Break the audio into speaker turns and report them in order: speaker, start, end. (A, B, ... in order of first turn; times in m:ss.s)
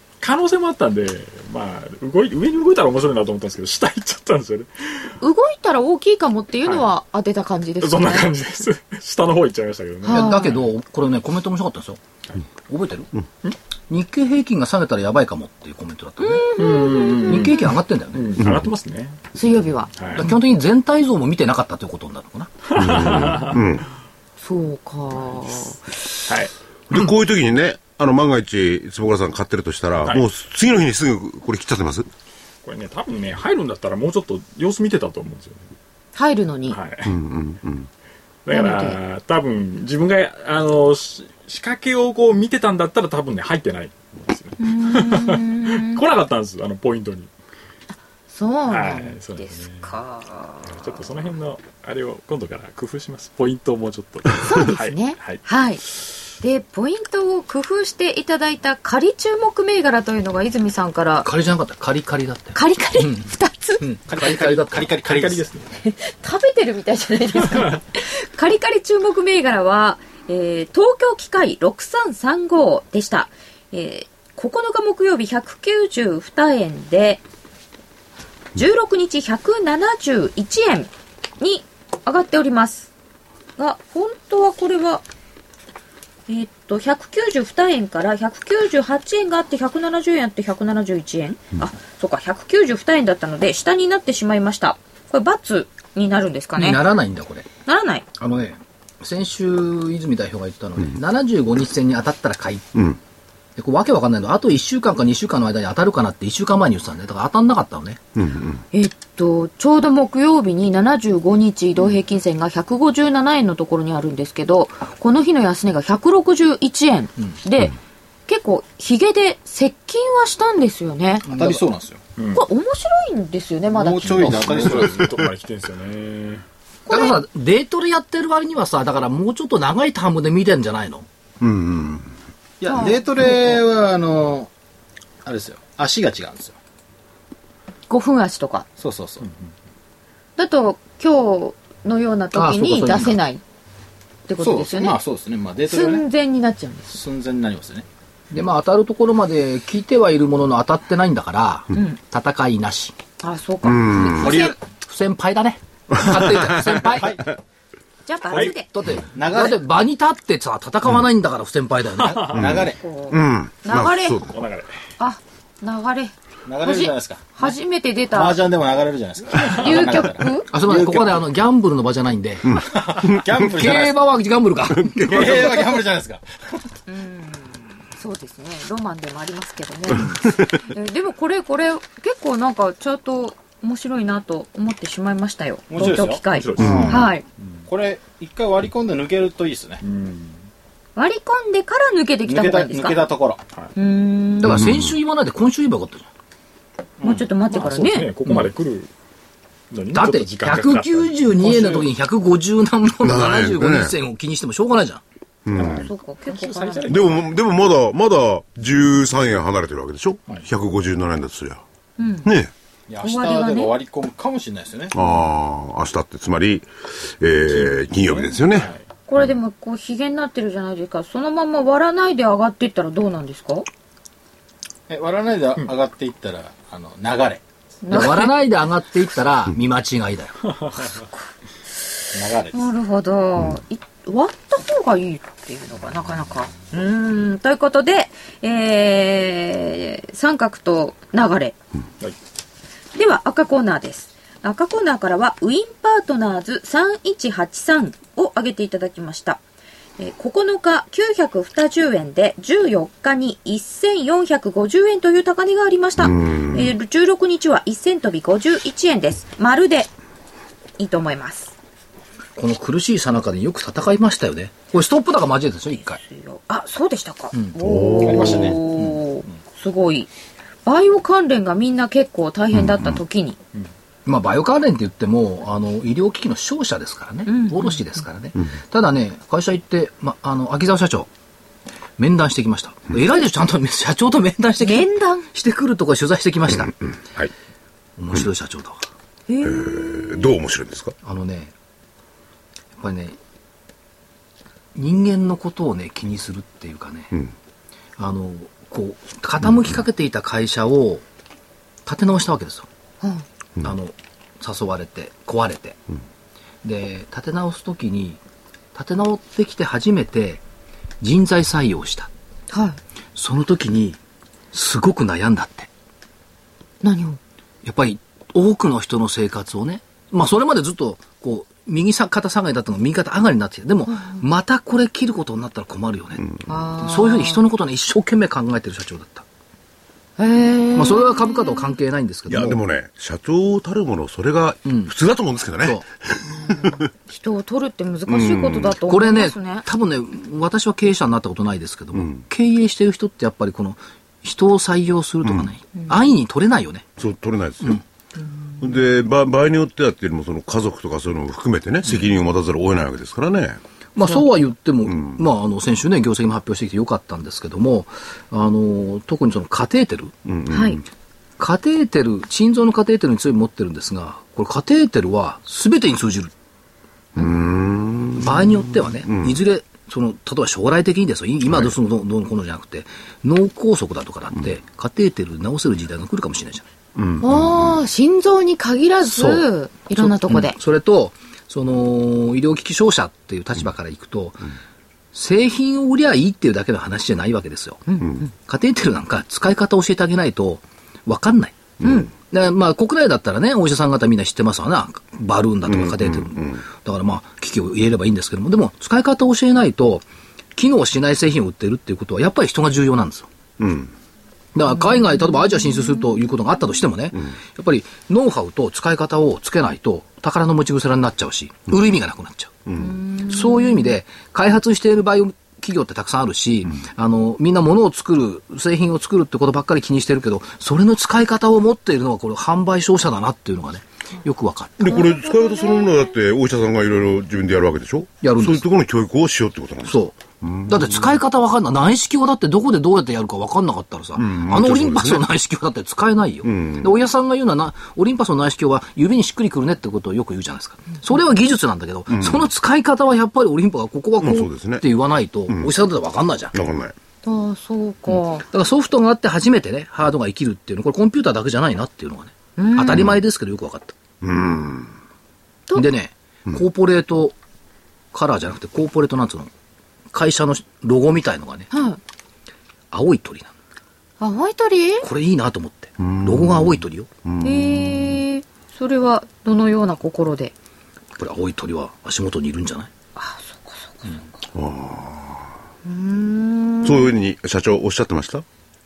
0:00.2-0:05.1 A
0:05.2-0:08.4 B
0:07.8-0:10.7 A
0:10.0-0:10.6 B
0:10.1-0:12.0 C
0:12.7-0:13.1 C
0:13.9-0:16.5 C
0:16.2-0:17.7 B
0:16.6-0:19.2 A
0:17.3-0:18.4 C
0:18.4-0:18.7 D
0:19.3-0:20.3 B
0:20.0-0:20.2 A
0:20.1-0:22.5 C
0:22.6-0:23.6 A
0:22.7-0:23.8 D
0:24.4-0:25.9 B
0:26.3-0:26.5 A
0:26.9-0:32.1 D
0:32.6-0:35.7 A
0:36.1-0:36.8 B
0:36.7-0:37.1 A
0:37.0-0:37.9 D
0:38.4-0:47.3 A
0:38.5-0:39.0 B
0:44.6-0:46.0 B
0:48.3-0:50.9 B
0:48.7-0:49.9 A
0:50.6-0:55.4 A
0:54.4-0:55.8 B
0:56.4-1:01.3 B
1:01.2-1:03.3 C
1:02.5-1:03.8 B
1:03.8-1:04.9 C
1:04.1-1:05.5 E
1:05.0-1:05.7 A
1:05.8-1:17.2 B
1:18.5-1:22.9 B
1:23.6-1:25.0 B
1:26.3-1:36.8 B
1:36.6-1:37.5 C
1:37.6-1:38.0 B
1:38.2-1:42.8 C
1:43.6-1:48.0 C
1:48.2-1:48.6 D
1:48.7-1:57.8 B
1:58.3-2:01.2 B
2:01.3-2:01.6 C
2:01.3-2:02.0 E
2:02.2-2:02.4 A
2:02.3-2:04.7 B
2:03.7-2:05.1 E
2:04.2-2:06.4 A
2:06.9-2:07.2 B
2:06.9-2:11.0 C
2:11.4-2:12.1 D
2:12.6-2:14.5 E
2:12.7-2:13.6 B
2:15.2-2:16.6 E
2:17.9-2:18.6 B
2:18.8-2:19.3 E
2:20.4-2:23.4 B
2:22.3-2:23.2 C
2:24.3-2:25.0 B
2:24.4-2:26.0 E
2:25.7-2:27.0 B
2:26.9-2:27.8 E
2:28.3-2:33.0 C
2:33.2-2:34.6 B
2:33.6-2:34.4 D
2:34.1-2:34.6 E
2:34.8-2:37.2 C
2:36.0-2:36.8 D
2:36.9-2:37.2 E
2:38.0-2:38.7 B
2:38.7-2:42.6 C
2:39.1-2:39.6 E
2:42.2-2:42.8 E
2:42.3-2:44.3 D
2:42.8-2:44.2 B
2:44.3-2:44.8 A
2:45.0-2:48.4 B
2:46.5-2:47.5 E
2:48.1-2:51.2 E
2:49.5-2:50.5 B
2:50.5-2:52.6 C
2:52.5-2:53.2 D
2:52.6-2:54.0 E
2:53.4-2:55.7 C
2:54.7-2:55.3 D
2:55.0-2:56.2 E
2:56.9-3:07.2 B
2:59.9-3:00.6 D
3:05.7-3:07.1 E
3:06.3-3:07.6 A
3:06.6-3:07.0 D
3:07.7-3:09.8 E
3:09.8-3:10.4 A
3:11.0-3:13.1 B
3:12.2-3:13.4 E
3:13.7-3:14.6 B
3:14.4-3:16.1 C
3:14.4-3:15.0 D
3:17.0-3:17.2 E
3:17.0-3:18.1 B
3:17.5-3:18.9 A
3:19.7-3:21.9 A
3:19.9-3:25.0 C
3:23.0-3:23.9 D
3:25.4-3:25.9 D
3:25.5-3:27.3 A
3:25.6-3:27.0 B
3:26.9-3:31.6 D
3:32.0-3:32.3 B
3:32.2-3:32.5 D
3:32.9-3:34.9 E
3:33.0-3:33.8 B
3:34.9-3:38.7 D
3:38.5-3:38.8 A
3:39.1-3:43.7 B
3:44.9-3:47.4 E
3:47.8-3:48.3 B
3:47.9-3:50.5 C
3:52.1-3:52.6 E
3:52.5-4:01.6 B
4:02.9-4:09.4 B
4:10.0-4:19.9 B
4:16.0-4:16.7 D
4:20.8-4:21.5 B
4:22.4-4:26.0 C
4:25.8-4:30.1 B
4:27.6-4:28.4 D
4:28.0-4:28.6 E
4:30.6-4:33.4 B
4:32.5-4:33.0 D
4:34.0-4:41.1 C
4:37.3-4:37.8 B
4:42.0-4:46.7 C
4:44.6-4:45.3 B
4:47.0-4:47.3 D
4:48.0-4:48.8 C
4:49.3-4:49.8 B
4:49.4-4:50.9 D
4:51.0-4:51.5 C
4:52.8-4:53.2 C
4:54.7-4:57.1 C
4:58.0-5:01.0 C
5:01.8-5:02.7 C
5:03.6-5:05.8 C
5:06.6-5:08.2 C
5:08.7-5:10.4 C
5:11.0-5:12.1 C
5:12.5-5:12.8 B
5:13.1-5:14.0 C
5:14.5-5:15.7 C
5:16.8-5:17.2 B
5:17.6-5:26.2 C
5:23.9-5:24.2 B
5:26.5-5:27.4 B
5:26.8-5:29.2 C
5:30.2-5:31.7 B
5:30.7-5:32.6 C
5:32.3-5:36.9 D
5:34.6-5:34.9 C
5:36.5-5:39.6 B
5:38.1-5:38.8 D
5:38.8-5:46.9 C
5:41.9-5:42.2 D
5:45.2-5:45.5 D
5:47.0-5:47.8 D
5:48.6-5:53.6 D
5:54.0-6:00.1 C
5:54.9-5:55.2 D
6:00.2-6:00.8 D
6:00.5-6:00.8 B
6:01.4-6:06.3 C
6:07.2-6:09.4 D
6:08.2-6:16.6 C
6:11.5-6:11.7 D
6:17.0-6:17.8 D
6:17.2-6:20.6 B
6:19.0-6:24.4 C
6:25.1-6:27.8 C
6:27.9-6:28.3 B
6:28.4-6:40.0 C
6:31.8-6:32.1 D
6:31.8-6:32.1 B
6:35.6-6:36.6 D
6:40.6-6:43.3 C
6:43.6-6:43.9 D
6:44.5-7:05.0 C
6:52.7-6:53.0 D
6:52.8-6:53.9 B
7:04.8-7:11.2 D
7:04.9-7:06.1 B
7:08.2-7:08.6 C
7:09.8-7:26.5 C
7:14.2-7:15.2 D
7:16.4-7:16.9 D
7:22.1-7:22.5 D
7:24.2-7:24.8 D
7:25.5-7:25.7 D
7:26.5-7:26.9 D
7:27.2-7:28.4 B
7:28.1-7:33.9 C
7:32.6-7:33.2 B
7:34.2-7:34.9 D
7:35.7-7:37.4 C
7:38.1-7:39.5 C
7:40.1-7:41.7 C
7:41.7-7:42.0 B
7:42.9-7:43.5 C
7:44.2-7:45.1 B
7:45.0-7:47.1 C
7:46.0-7:48.2 D
7:47.4-7:50.5 B
7:51.2-7:52.9 C
7:53.2-7:54.3 B
7:54.5-7:55.5 D
7:55.8-7:57.1 B
7:56.8-7:58.4 D